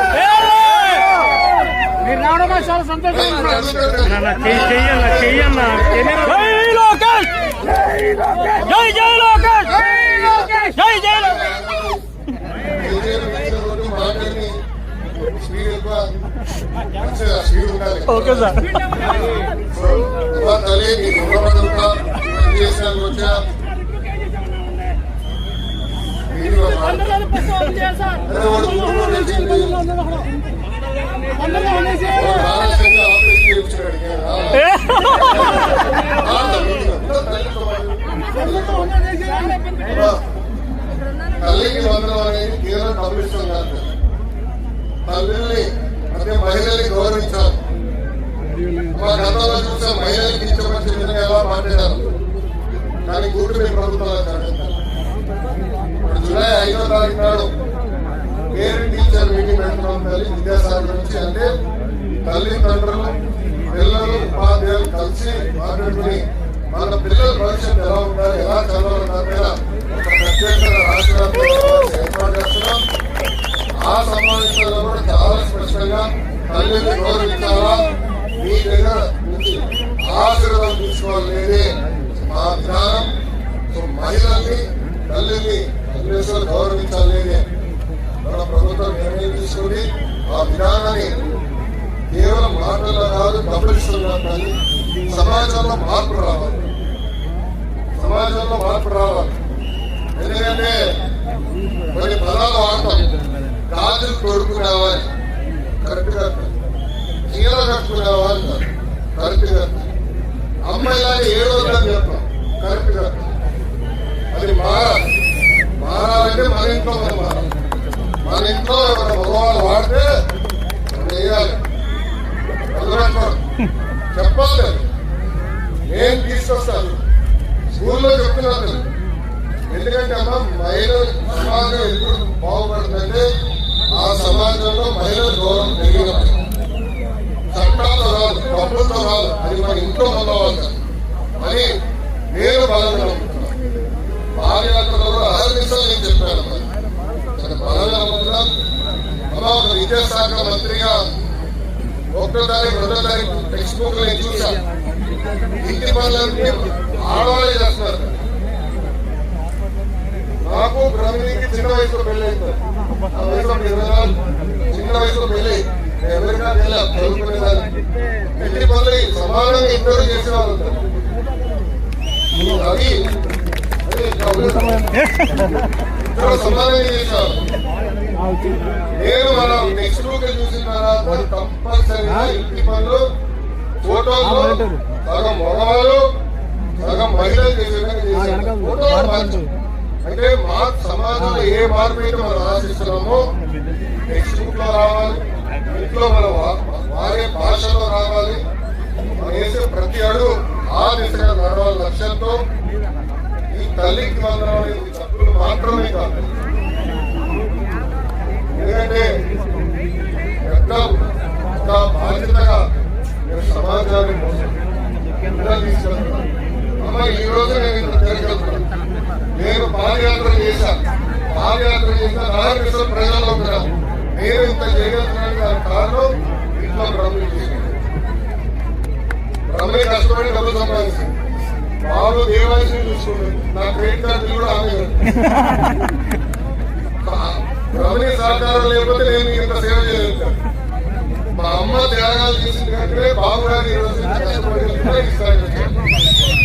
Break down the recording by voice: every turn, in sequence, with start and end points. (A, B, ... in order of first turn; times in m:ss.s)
0:00.4-0:01.0 A
0:02.0-0:03.1 A
0:03.1-0:06.5 B
0:04.3-0:08.2 A
0:08.4-0:12.0 B
0:12.8-0:14.6 B
0:15.2-0:16.1 B
0:16.9-0:18.6 B
0:18.3-0:19.1 A
0:19.8-0:23.4 B
0:24.4-0:24.8 A
0:26.3-0:27.5 B
0:27.4-0:28.2 A
0:28.2-0:30.0 B
0:31.3-0:32.1 A
0:32.0-0:39.1 B
0:39.0-0:39.8 A
0:39.8-0:40.2 B
0:41.4-0:43.9 B
0:45.1-0:47.6 B
0:48.9-0:52.0 B
0:53.1-0:54.8 B
0:56.0-0:57.5 B
0:58.5-1:01.5 B
1:02.2-1:03.2 B
1:03.7-1:12.8 B
1:13.8-1:23.1 B
1:23.7-1:27.4 B
1:28.2-1:31.2 B
1:32.1-1:34.6 B
1:35.1-1:36.7 B
1:38.0-1:39.4 B
1:40.2-1:40.8 B
1:41.9-1:43.1 B
1:43.7-1:45.0 B
1:45.8-1:46.5 B
1:47.3-1:49.9 B
1:50.7-1:53.3 B
1:54.3-1:55.1 B
1:55.8-1:57.5 B
1:58.2-2:00.1 B
2:00.9-2:01.6 B
2:02.7-2:03.4 B
2:04.1-2:04.8 B
2:05.9-2:07.0 B
2:07.7-2:08.9 B
2:09.7-2:13.3 B
2:14.0-2:16.4 B
2:17.5-2:20.7 B
2:21.4-2:21.8 B
2:22.3-2:23.6 B
2:24.4-2:26.6 B
2:27.3-2:28.5 B
2:29.3-2:31.1 B
2:32.1-2:34.6 B
2:35.6-2:38.2 B
2:40.4-2:42.6 B
2:43.1-2:47.7 B
2:48.2-2:50.9 B
2:52.4-2:53.1 B
2:53.8-2:54.9 B
2:56.1-2:57.4 B
2:58.9-3:03.0 B
3:03.8-3:06.1 B
3:04.5-3:04.8 A
3:06.8-3:09.5 B
3:08.3-3:08.8 A
3:10.0-3:13.3 B
3:14.1-3:18.4 B
3:19.2-3:22.4 B
3:23.5-3:26.3 B
3:28.5-3:29.2 B
3:30.4-3:32.7 B
3:33.3-3:34.6 B
3:35.2-3:36.3 B
3:36.8-3:38.6 B
3:39.4-3:47.7 B
3:49.5-3:51.2 B
3:51.8-3:55.0 B
3:57.0-4:00.4 B
4:01.3-4:05.8 B